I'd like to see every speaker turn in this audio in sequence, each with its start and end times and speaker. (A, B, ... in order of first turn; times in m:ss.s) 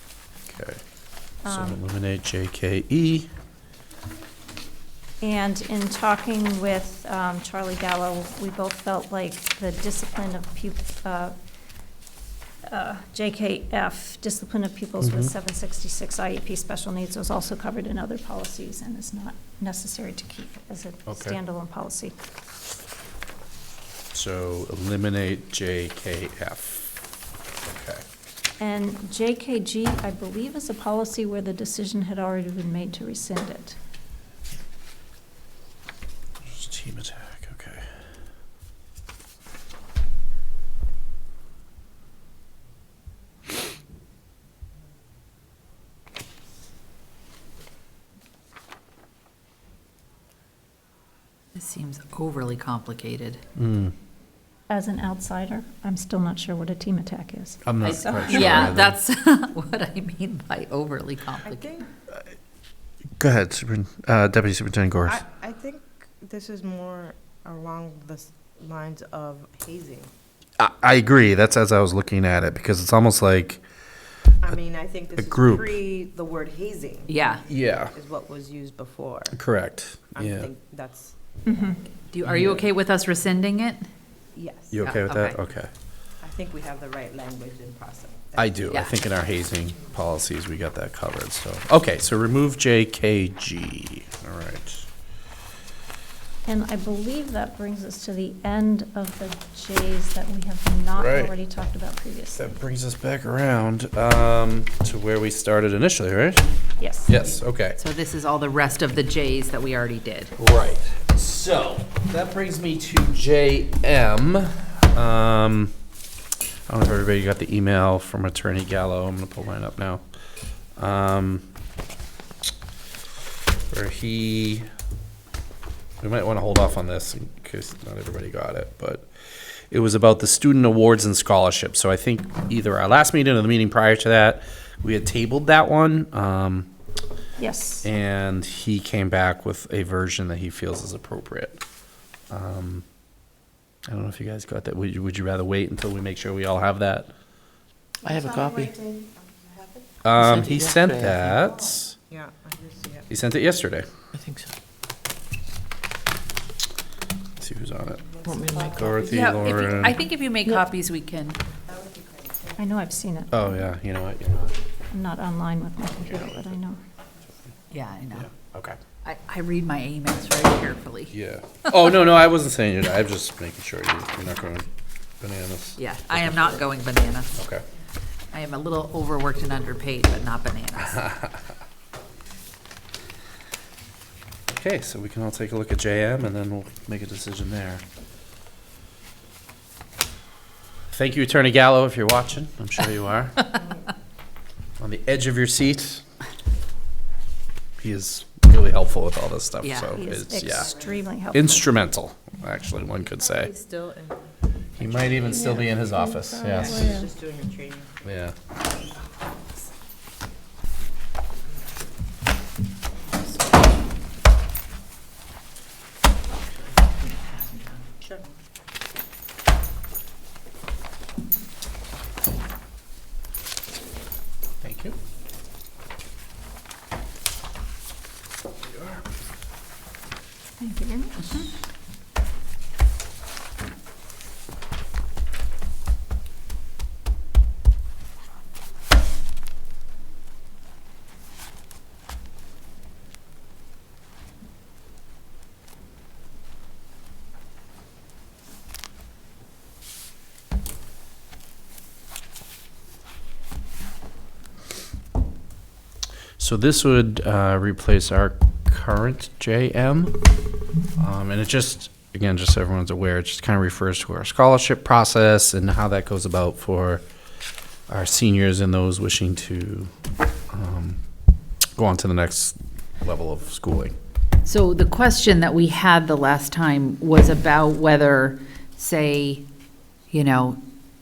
0:00.5-0:00.8 A
0:01.4-0:01.8 B
0:01.5-0:03.3 A
0:05.2-0:11.4 B
0:12.7-0:22.2 B
0:15.0-0:15.3 A
0:21.1-0:21.4 A
0:24.1-0:27.0 A
0:27.6-0:28.0 A
0:28.6-0:33.8 B
0:36.4-0:38.0 A
0:51.6-0:53.4 C
0:53.6-0:53.9 A
0:54.7-0:57.6 B
0:57.6-0:59.0 A
0:57.8-1:01.8 C
0:58.2-0:58.6 B
1:01.4-1:01.9 D
1:03.2-1:05.2 A
1:05.1-1:10.1 D
1:10.6-1:13.6 A
1:14.4-1:19.4 D
1:15.2-1:15.7 A
1:17.1-1:17.4 C
1:17.5-1:17.9 A
1:19.3-1:20.5 A
1:20.2-1:21.8 D
1:21.5-1:21.8 B
1:22.1-1:23.9 C
1:22.2-1:22.7 A
1:24.4-1:24.8 D
1:24.7-1:25.7 A
1:24.8-1:25.4 C
1:26.2-1:28.6 D
1:28.4-1:34.9 A
1:36.5-1:42.5 B
1:41.0-1:41.3 A
1:42.4-1:46.5 A
1:46.8-1:47.2 B
1:47.1-1:47.8 A
1:47.8-1:50.3 C
1:50.4-1:55.7 A
1:56.7-2:00.0 A
2:00.8-2:01.5 A
2:03.7-2:04.7 A
2:06.0-2:09.1 A
2:09.7-2:16.7 A
2:17.4-2:17.9 B
2:17.8-2:21.6 A
2:22.3-2:22.8 A
2:23.9-2:27.1 A
2:28.0-2:28.8 E
2:28.8-2:29.2 D
2:30.0-2:32.0 A
2:30.1-2:31.4 E
2:32.1-2:33.1 D
2:33.1-2:33.9 A
2:34.1-2:34.6 E
2:37.4-2:38.2 A
2:38.2-2:38.9 D
2:38.2-2:39.2 E
2:38.7-2:40.0 A
2:39.0-2:41.4 C
2:41.7-2:42.6 D
2:42.6-2:43.5 B
2:43.3-2:44.5 A
2:44.9-2:46.8 B
2:46.0-2:46.5 A
2:47.7-2:48.3 C
2:48.2-2:48.8 A
2:49.0-2:51.1 C
2:51.1-2:54.7 A
2:55.2-2:56.7 A
2:55.8-2:57.3 C
2:57.4-2:57.6 A
2:58.3-3:01.0 C
3:00.8-3:01.4 A
3:04.5-3:07.8 A
3:10.9-3:13.6 A
3:14.8-3:16.0 A
3:17.8-3:20.8 A
3:19.6-3:20.0 C
3:20.0-3:21.7 B
3:21.3-3:23.5 A
3:23.2-3:28.0 D
3:24.8-3:26.9 A
3:28.0-3:28.4 A
3:44.6-3:45.0 A
3:48.6-3:49.0 A
3:50.6-3:51.5 B
4:16.4-4:20.2 A
4:21.0-4:27.0 A
4:27.9-4:29.9 A
4:30.5-4:31.0 A
4:31.8-4:34.0 A
4:34.4-4:39.5 C
4:40.1-4:40.6 C